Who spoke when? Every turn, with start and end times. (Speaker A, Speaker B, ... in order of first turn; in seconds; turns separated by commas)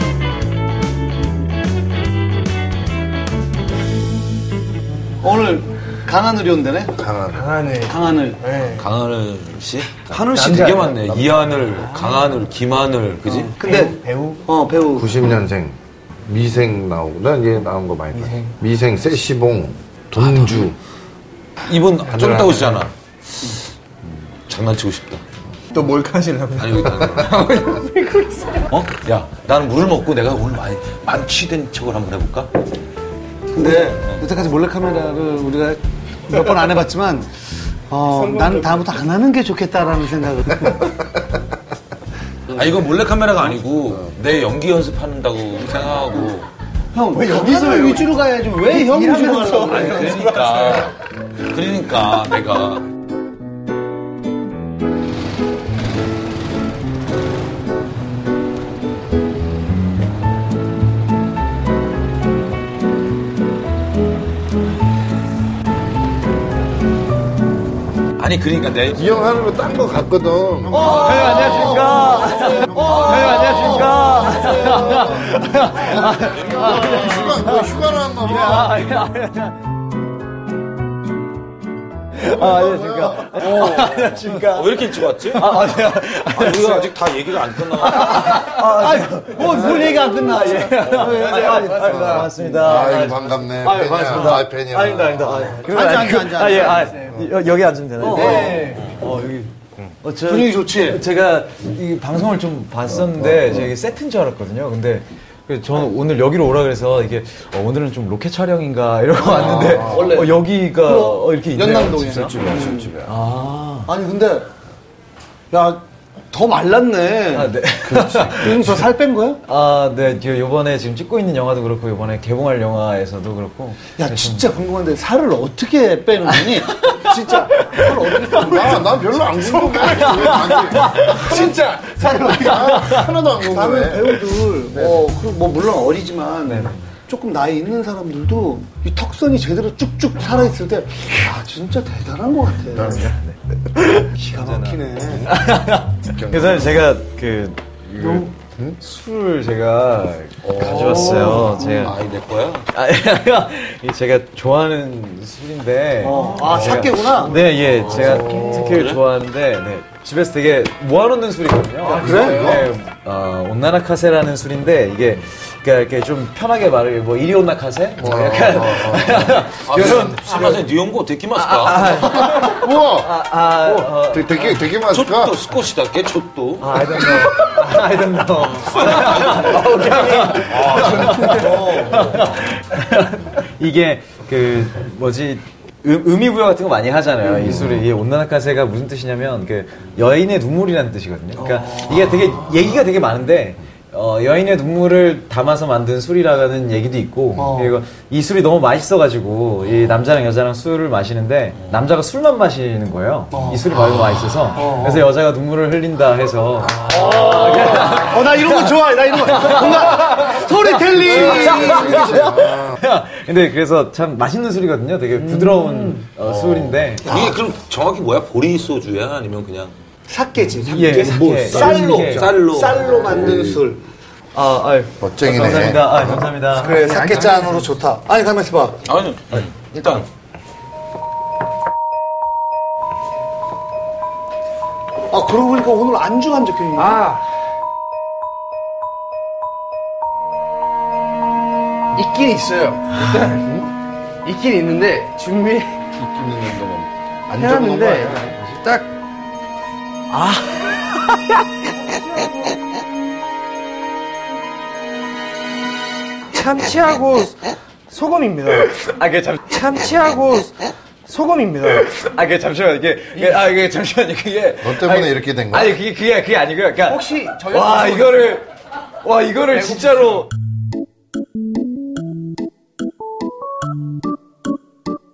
Speaker A: 5.2-6.9, Speaker B: 7.0-7.6, Speaker C: 7.3-8.8, Speaker A: 7.9-8.4, Speaker D: 8.7-13.6, Speaker E: 10.1-11.0, Speaker A: 13.5-15.2, Speaker C: 13.6-14.4, Speaker B: 15.0-20.8, Speaker C: 18.2-18.5, Speaker D: 20.2-20.5, Speaker D: 21.7-22.9, Speaker D: 24.5-25.2, Speaker C: 25.7-28.7, Speaker D: 26.6-27.5, Speaker D: 28.7-32.5, Speaker A: 33.5-40.9, Speaker C: 38.4-38.8, Speaker D: 42.5-46.5, Speaker A: 46.9-50.3, Speaker C: 47.1-48.1, Speaker C: 48.6-50.9, Speaker D: 49.6-50.9, Speaker D: 51.5-52.9, Speaker D: 68.2-69.1, Speaker B: 68.9-71.5, Speaker E: 70.7-79.6, Speaker A: 70.7-75.1, Speaker D: 70.8-71.8, Speaker B: 72.6-73.8, Speaker B: 75.8-78.8, Speaker D: 76.2-77.1, Speaker E: 82.2-86.9, Speaker B: 82.2-83.5, Speaker D: 83.4-88.4, Speaker E: 87.9-99.5, Speaker A: 88.0-92.3, Speaker C: 91.1-92.3, Speaker B: 92.1-95.6, Speaker A: 95.6-96.9, Speaker C: 96.8-97.2, Speaker B: 97.0-97.2, Speaker A: 98.0-98.8, Speaker C: 98.0-98.9, Speaker E: 100.0-112.4, Speaker A: 100.3-101.0, Speaker B: 103.2-103.6, Speaker A: 109.2-112.9, Speaker B: 109.3-110.2, Speaker B: 112.0-113.1, Speaker E: 113.0-113.9, Speaker A: 113.9-114.5, Speaker A: 115.5-117.5, Speaker E: 117.3-118.7, Speaker B: 117.8-118.7, Speaker A: 118.3-119.4, Speaker E: 119.4-124.5, Speaker A: 124.0-129.9, Speaker E: 126.6-128.3, Speaker B: 128.4-131.2, Speaker C: 129.7-130.3, Speaker E: 129.9-131.4, Speaker C: 131.0-132.8, Speaker A: 131.1-132.7, Speaker B: 132.3-135.1, Speaker E: 132.6-133.1, Speaker A: 133.3-143.1, Speaker E: 136.4-136.9, Speaker E: 142.8-152.0, Speaker A: 144.2-145.3, Speaker B: 145.0-145.5, Speaker B: 146.0-146.8, Speaker D: 150.4-152.7, Speaker E: 152.7-170.6, Speaker A: 156.0-157.4, Speaker D: 157.8-159.0, Speaker C: 158.2-158.6, Speaker C: 161.9-162.5, Speaker A: 161.9-162.6, Speaker B: 162.0-162.7, Speaker B: 168.0-170.4, Speaker D: 169.7-172.2, Speaker E: 171.4-174.6, Speaker B: 172.4-173.1, Speaker B: 173.9-175.4, Speaker D: 174.8-176.8, Speaker E: 176.6-217.1, Speaker D: 178.4-179.6, Speaker D: 180.4-182.1, Speaker A: 180.8-182.2, Speaker B: 187.4-187.8, Speaker A: 191.5-192.0, Speaker A: 197.4-197.8, Speaker A: 203.3-203.7, Speaker A: 204.6-205.0, Speaker A: 206.8-212.3, Speaker B: 210.9-212.8, Speaker C: 215.3-216.1, Speaker B: 216.4-216.7, Speaker D: 217.0-219.7, Speaker A: 217.1-217.4, Speaker A: 220.1-223.8, Speaker E: 220.7-222.4, Speaker D: 221.5-223.3, Speaker B: 222.9-223.6, Speaker E: 224.3-226.9, Speaker B: 225.0-226.2, Speaker C: 226.5-227.7, Speaker A: 226.6-228.8, Speaker D: 228.9-230.1, Speaker A: 235.1-237.0, Speaker C: 236.8-237.2, Speaker C: 241.9-243.7, Speaker C: 244.2-245.8, Speaker B: 246.0-248.6, Speaker C: 247.4-248.9, Speaker E: 250.1-250.6, Speaker C: 256.3-258.8, Speaker E: 258.8-259.5, Speaker C: 259.5-261.9, Speaker E: 261.9-268.5, Speaker B: 264.6-265.8, Speaker C: 266.9-268.4, Speaker E: 269.0-270.3, Speaker C: 269.5-270.2